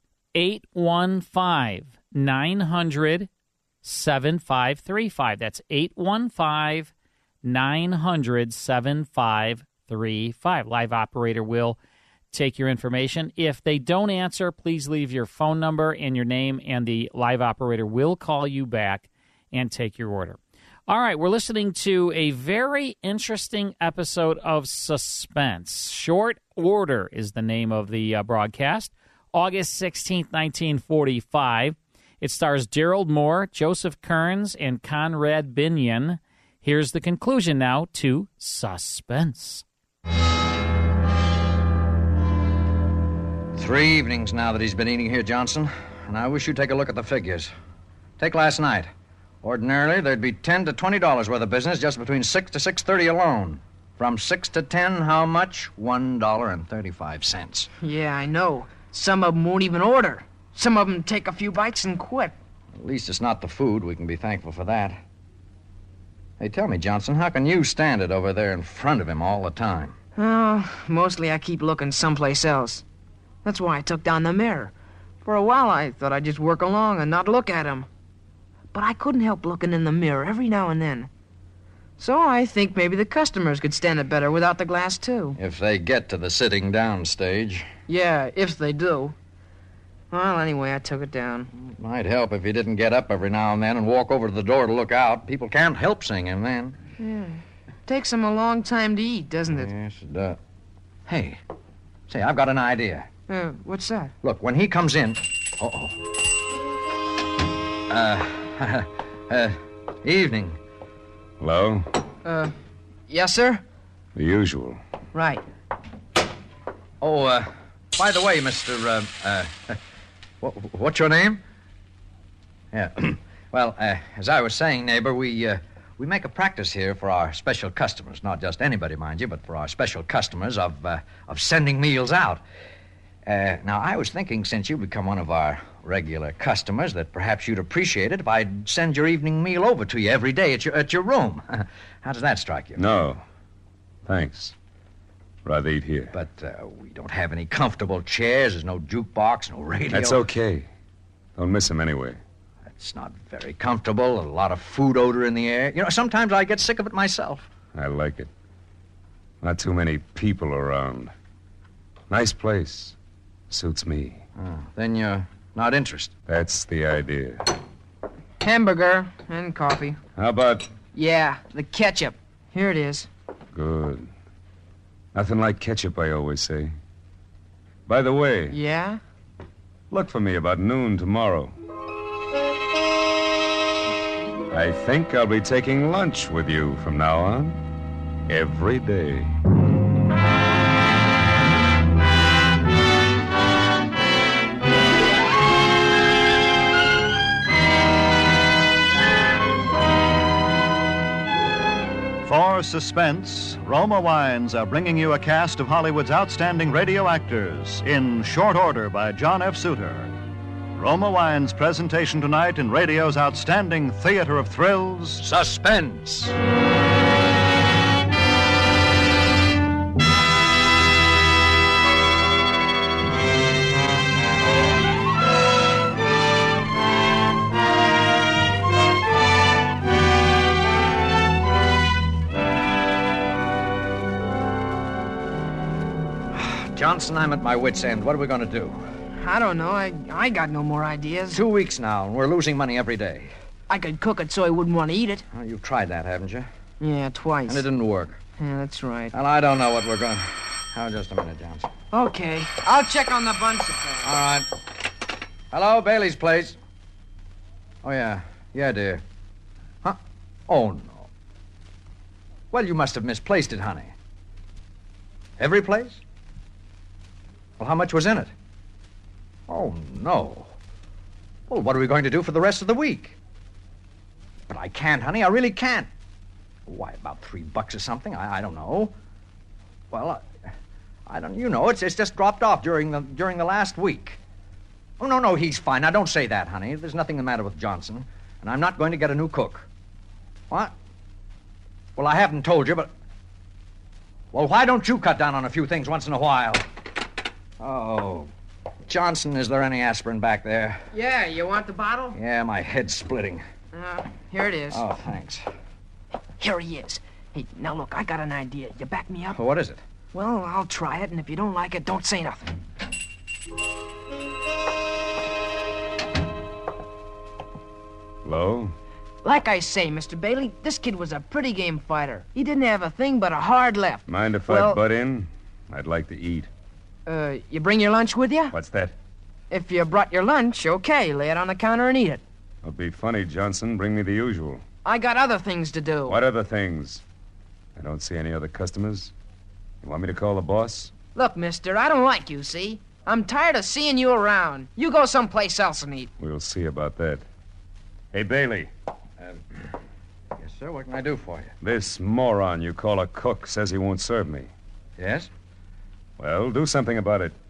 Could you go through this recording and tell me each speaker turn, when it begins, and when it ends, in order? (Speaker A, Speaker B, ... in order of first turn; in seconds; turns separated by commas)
Speaker A: 0.3-3.3, Speaker A: 3.8-6.9, Speaker A: 7.4-11.8, Speaker A: 12.3-39.6, Speaker B: 43.5-47.5, Speaker B: 48.2-48.9, Speaker B: 49.4-57.7, Speaker C: 57.8-62.4, Speaker B: 62.7-65.0, Speaker B: 66.4-70.0, Speaker C: 70.2-72.8, Speaker C: 73.4-74.7, Speaker C: 75.2-77.9, Speaker C: 78.7-81.1, Speaker C: 82.0-85.3, Speaker B: 85.3-87.7, Speaker C: 87.9-89.1, Speaker C: 90.1-91.5, Speaker B: 91.5-96.8, Speaker C: 97.0-99.7, Speaker B: 99.5-100.4, Speaker B: 101.0-101.4, Speaker B: 102.1-103.1, Speaker C: 103.3-104.1, Speaker B: 104.2-106.0, Speaker B: 107.9-110.6, Speaker D: 111.4-111.9, Speaker C: 112.2-112.5, Speaker C: 113.1-113.6, Speaker D: 114.1-114.8, Speaker C: 115.1-115.4, Speaker B: 117.0-119.8, Speaker B: 120.4-121.4, Speaker B: 122.7-132.4, Speaker B: 133.2-142.8, Speaker D: 142.8-143.2, Speaker D: 144.1-144.5, Speaker D: 145.4-146.1, Speaker B: 146.1-150.2, Speaker D: 149.9-150.7, Speaker D: 151.4-152.2, Speaker B: 152.7-157.5, Speaker D: 157.7-158.3, Speaker D: 159.4-161.1, Speaker D: 162.1-162.9, Speaker D: 163.5-164.2, Speaker B: 164.3-166.1, Speaker D: 166.3-167.4, Speaker C: 168.4-170.0, Speaker D: 170.2-170.7, Speaker C: 170.9-173.1, Speaker D: 173.5-174.1, Speaker D: 175.1-176.7, Speaker D: 177.9-178.6, Speaker C: 178.5-179.0, Speaker D: 179.9-181.5, Speaker D: 184.5-187.6, Speaker D: 188.3-189.3, Speaker E: 202.2-210.1, Speaker E: 210.7-215.2, Speaker B: 215.2-216.3, Speaker B: 236.3-238.8, Speaker C: 239.2-241.4, Speaker B: 241.3-243.3, Speaker C: 243.7-245.2, Speaker B: 245.3-246.5, Speaker C: 246.8-247.6, Speaker B: 247.5-248.2, Speaker C: 248.4-249.1, Speaker B: 249.1-251.7, Speaker C: 251.9-254.1, Speaker B: 254.0-254.5, Speaker B: 255.5-256.6, Speaker B: 257.8-259.0, Speaker B: 259.8-261.1, Speaker B: 262.5-263.9, Speaker B: 265.4-266.0, Speaker B: 267.6-268.3, Speaker B: 269.5-270.5, Speaker B: 271.5-273.2, Speaker B: 274.5-275.9, Speaker B: 276.7-278.9, Speaker B: 279.9-280.3, Speaker B: 281.1-284.2, Speaker B: 285.0-289.7, Speaker B: 290.5-290.7, Speaker B: 291.9-292.9, Speaker B: 294.3-296.6, Speaker B: 297.6-298.3, Speaker B: 298.9-300.9, Speaker C: 300.9-302.2, Speaker B: 302.1-303.4, Speaker C: 303.7-304.8, Speaker B: 304.7-305.4, Speaker C: 306.4-309.4, Speaker B: 309.3-309.8, Speaker C: 310.1-312.5, Speaker D: 318.2-318.7, Speaker C: 319.2-324.8, Speaker D: 324.1-326.5, Speaker C: 327.1-328.5, Speaker D: 328.5-328.9, Speaker C: 329.5-332.2, Speaker D: 332.6-334.6, Speaker C: 334.8-336.2, Speaker D: 336.1-337.0, Speaker D: 337.8-339.1, Speaker D: 339.8-340.9, Speaker C: 341.1-346.1, Speaker D: 346.2-347.2, Speaker D: 348.1-348.7, Speaker B: 349.2-349.6, Speaker B: 350.4-351.5, Speaker D: 351.6-354.5, Speaker B: 355.0-355.3, Speaker D: 356.2-357.4